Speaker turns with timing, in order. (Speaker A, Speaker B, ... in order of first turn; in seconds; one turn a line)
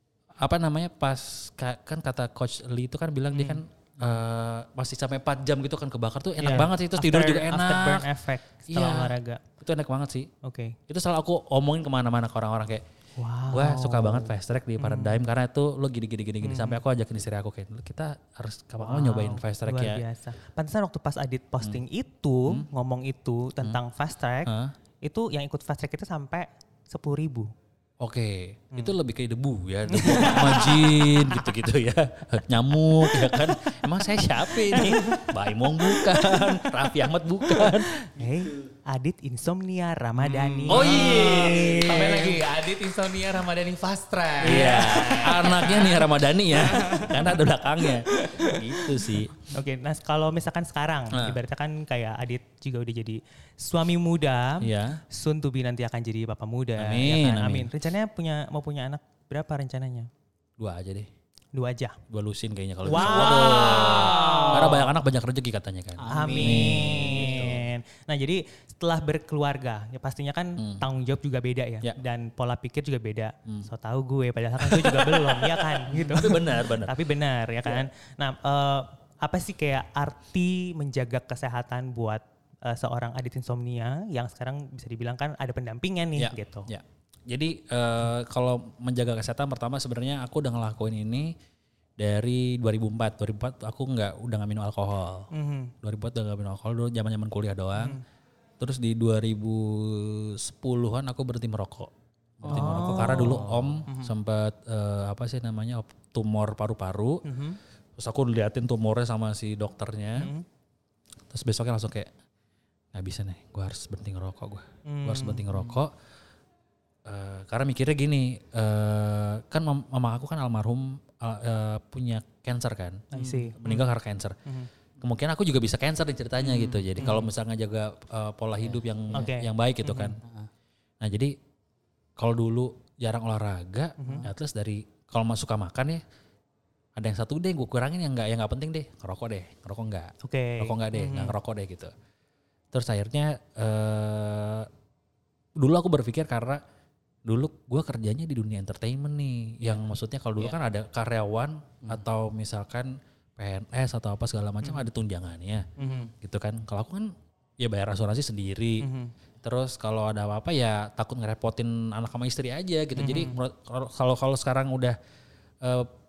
Speaker A: 0.4-8.1
Speaker B: 3.3-3.6
Speaker B: 6.4-9.4
Speaker A: 8.7-10.3
Speaker B: 10.4-10.8
Speaker A: 10.9-12.8
Speaker B: 13.2-15.2
Speaker A: 13.5-20.0
Speaker B: 16.4-16.8
Speaker B: 18.8-27.5
Speaker A: 24.4-24.7
Speaker A: 28.0-37.9
Speaker B: 29.9-30.8
Speaker B: 37.6-42.4
Speaker C: 40.2-46.0
Speaker A: 40.7-41.8
Speaker A: 44.4-49.3
Speaker B: 44.4-45.1
Speaker C: 46.7-47.1
Speaker B: 48.1-60.1
Speaker A: 51.1-51.4
Speaker A: 54.6-55.0
Speaker A: 56.8-57.7
Speaker A: 60.6-61.1
Speaker B: 61.5-62.0
Speaker A: 62.1-67.7
Speaker B: 62.9-64.8
Speaker C: 62.9-64.8
Speaker C: 66.0-67.4
Speaker B: 66.1-86.7
Speaker A: 74.6-77.0
Speaker A: 86.2-91.3
Speaker A: 92.0-95.3
Speaker B: 95.3-95.7
Speaker A: 95.8-98.0
Speaker B: 97.8-98.0
Speaker A: 98.6-101.9
Speaker A: 102.4-107.2
Speaker B: 102.4-104.1
Speaker C: 102.5-103.7
Speaker B: 107.2-107.6
Speaker A: 108.0-110.3
Speaker B: 110.2-110.4
Speaker A: 111.3-112.1
Speaker A: 112.9-115.9
Speaker B: 114.8-115.7
Speaker A: 117.0-124.4
Speaker B: 123.1-123.9
Speaker C: 123.2-123.4
Speaker A: 125.0-130.2
Speaker C: 126.4-127.2
Speaker B: 127.0-127.2
Speaker B: 129.1-129.5
Speaker C: 129.9-130.5
Speaker A: 131.0-131.3
Speaker A: 132.2-136.0
Speaker B: 134.0-134.3
Speaker A: 136.9-141.9
Speaker B: 140.2-141.3
Speaker A: 142.7-144.7
Speaker A: 145.6-146.6
Speaker A: 147.2-158.9
Speaker B: 155.8-156.1
Speaker B: 158.8-159.1
Speaker A: 159.4-165.0
Speaker B: 162.9-163.4
Speaker A: 165.6-165.9